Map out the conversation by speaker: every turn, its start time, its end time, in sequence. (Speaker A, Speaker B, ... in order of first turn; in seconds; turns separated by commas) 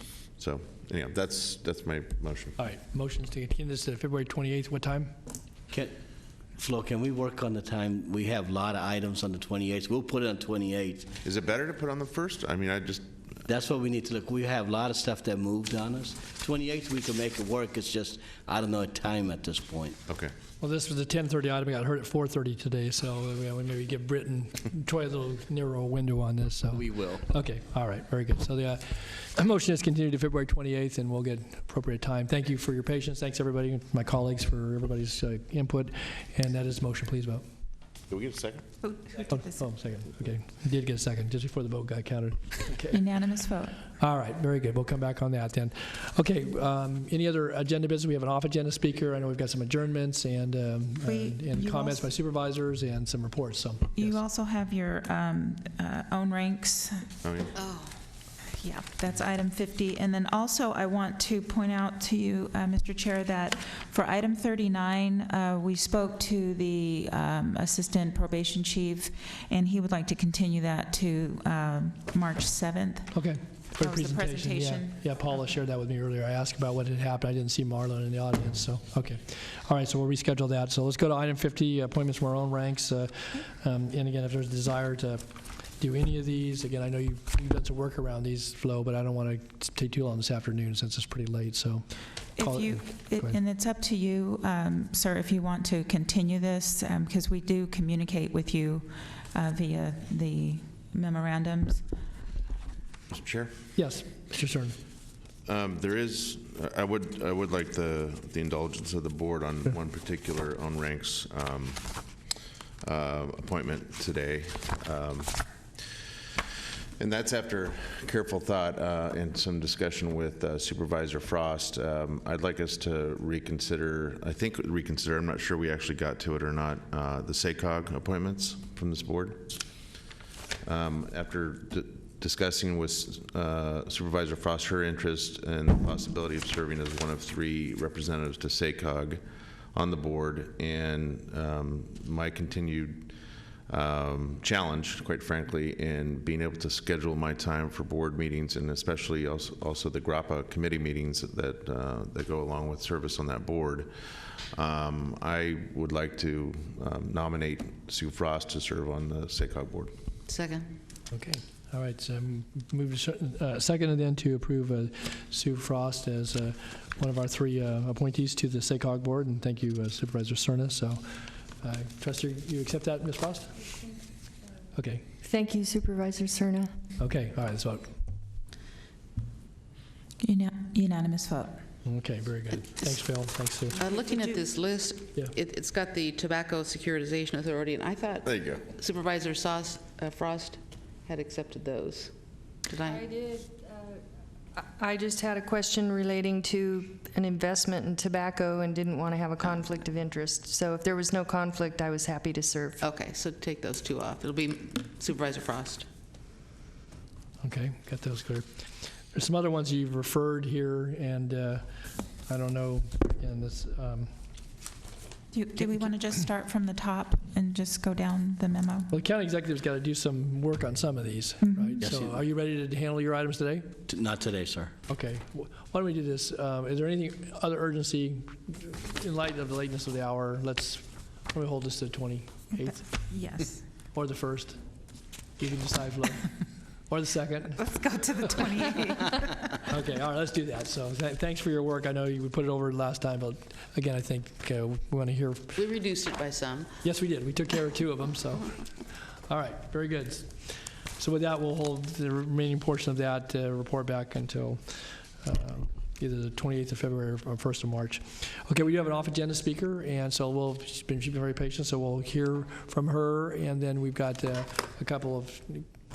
Speaker A: 0.4-2.6, Speaker B: 2.6-5.1, Speaker C: 6.6-11.1, Speaker A: 11.2-13.0, Speaker C: 13.5-20.0, Speaker B: 20.6-37.4, Speaker C: 26.7-27.3, Speaker A: 38.1-38.6, Speaker D: 38.8-39.6, Speaker B: 39.3-43.0, Speaker D: 42.9-43.8, Speaker B: 44.0-54.2, Speaker D: 51.0-52.0, Speaker D: 54.0-57.0, Speaker A: 57.2-57.5, Speaker E: 57.5-57.9, Speaker D: 58.6-75.2, Speaker B: 73.1-85.2, Speaker B: 85.8-91.8, Speaker D: 92.4-101.8, Speaker B: 92.4-93.4, Speaker A: 103.1-103.5, Speaker B: 103.8-104.8, Speaker A: 105.5-111.9, Speaker A: 112.8-115.3, Speaker A: 117.0-129.6, Speaker A: 130.6-139.2, Speaker A: 139.7-143.1, Speaker A: 143.7-153.9, Speaker A: 154.5-159.9, Speaker E: 160.3-160.7, Speaker B: 161.1-173.5, Speaker B: 174.7-175.0, Speaker F: 175.2-176.7, Speaker B: 177.0-177.9, Speaker D: 180.2-181.6, Speaker B: 181.8-183.8, Speaker E: 182.6-183.0, Speaker E: 183.7-192.1, Speaker D: 184.1-184.3, Speaker A: 188.2-188.6, Speaker E: 192.6-193.4, Speaker F: 194.6-202.8, Speaker E: 202.8-205.8, Speaker B: 207.4-208.4, Speaker B: 209.1-211.6, Speaker B: 212.3-214.1, Speaker D: 215.3-218.9, Speaker B: 218.9-223.8, Speaker D: 221.4-221.8, Speaker C: 221.8-222.2, Speaker C: 223.8-224.8, Speaker B: 224.9-232.9, Speaker D: 232.5-233.6, Speaker B: 233.9-234.6, Speaker B: 235.4-236.3, Speaker B: 236.9-237.6, Speaker D: 237.6-239.4, Speaker B: 239.7-245.5, Speaker E: 245.5-246.8, Speaker B: 246.8-248.5, Speaker B: 249.3-250.4, Speaker B: 251.0-265.6